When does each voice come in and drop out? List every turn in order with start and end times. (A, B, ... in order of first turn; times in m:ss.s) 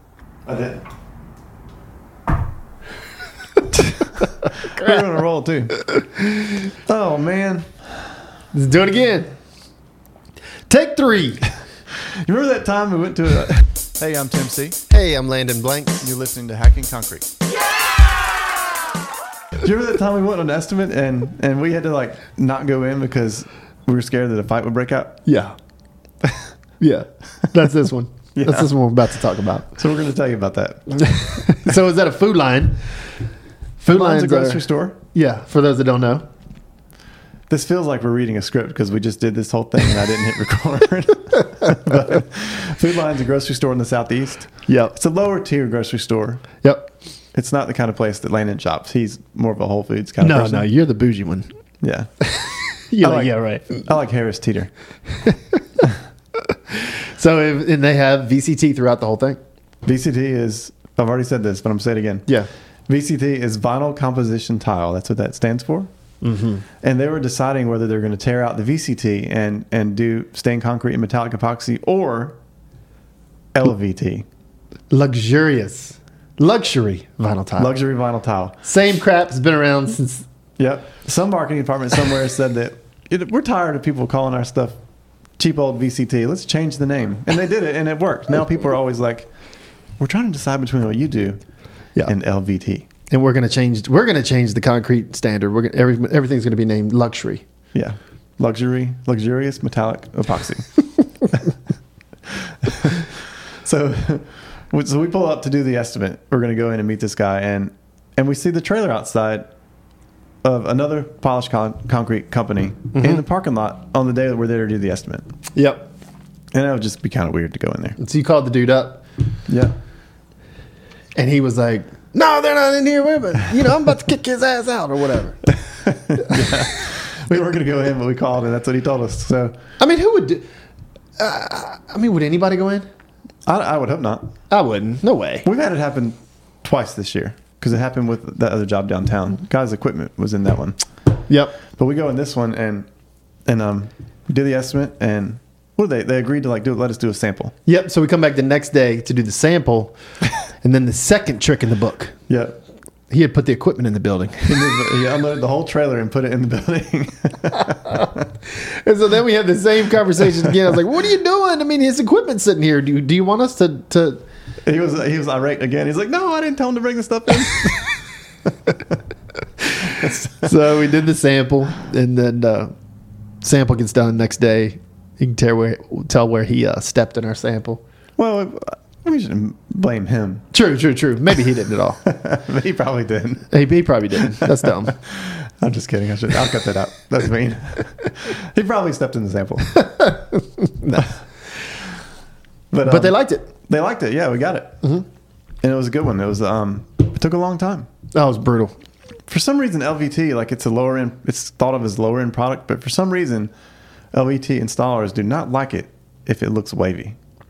0:00.4-0:00.8 A
0:04.6-0:05.8 A
0:06.8-0:07.7 A
0:08.5-0:09.3 B
0:10.7-0:11.4 B
0:12.2-0:14.8 A
0:14.9-0:16.1 B
0:16.0-0:17.3 A
0:19.6-0:25.2 A
0:25.2-0:25.5 B
0:26.8-0:29.7 B
0:28.3-0:28.7 A
0:29.7-0:31.0 A
0:31.0-0:32.8 B
0:33.8-0:36.2 B
0:33.8-0:35.0 A
0:37.5-0:46.4 A
0:44.7-0:45.0 B
0:46.6-0:46.9 B
0:47.3-0:50.7 A
0:50.2-0:51.5 B
0:51.8-0:52.1 A
0:52.2-0:53.8 B
0:53.0-0:54.7 A
0:56.7-0:59.4 B
0:59.8-1:02.2 A
1:02.9-1:05.9 A
1:06.2-1:06.6 B
1:06.8-1:12.4 A
1:13.5-1:14.2 A
1:14.9-1:17.7 B
1:17.6-1:18.6 A
1:18.6-1:20.2 B
1:20.6-1:24.8 A
1:25.4-1:29.3 A
1:30.0-1:31.4 A
1:32.0-1:32.9 A
1:33.1-1:37.4 B
1:37.7-1:40.7 A
1:42.5-1:49.5 A
1:50.4-1:55.3 A
1:53.0-1:53.2 B
1:55.5-1:55.9 B
1:56.5-1:58.0 A
1:58.0-1:59.0 B
1:59.5-1:59.7 A
2:01.2-2:05.4 B
2:05.8-2:09.6 A
2:06.3-2:06.7 B
2:09.8-2:10.4 B
2:11.2-2:12.8 B
2:13.5-2:14.3 A
2:14.5-2:15.5 B
2:15.4-2:20.8 A
2:21.3-2:21.6 B
2:21.8-2:22.9 A
2:23.5-2:27.5 A
2:27.6-2:30.0 B
2:30.6-2:32.2 B
2:32.3-2:32.6 A
2:33.1-2:34.8 B
2:34.4-2:38.2 A
2:38.6-2:44.2 B
2:44.6-2:47.8 A
2:49.9-2:52.7 B
2:49.9-2:50.5 A
2:53.4-2:57.8 B
2:58.2-3:00.4 A
3:00.5-3:02.0 B
3:02.0-3:03.5 A
3:03.5-3:05.0 B
3:05.0-3:09.9 A
3:09.8-3:11.0 B
3:12.7-3:15.0 A
3:12.8-3:13.5 B
3:15.6-3:17.9 A
3:18.1-3:18.7 B
3:19.3-3:23.5 A
3:24.1-3:27.2 A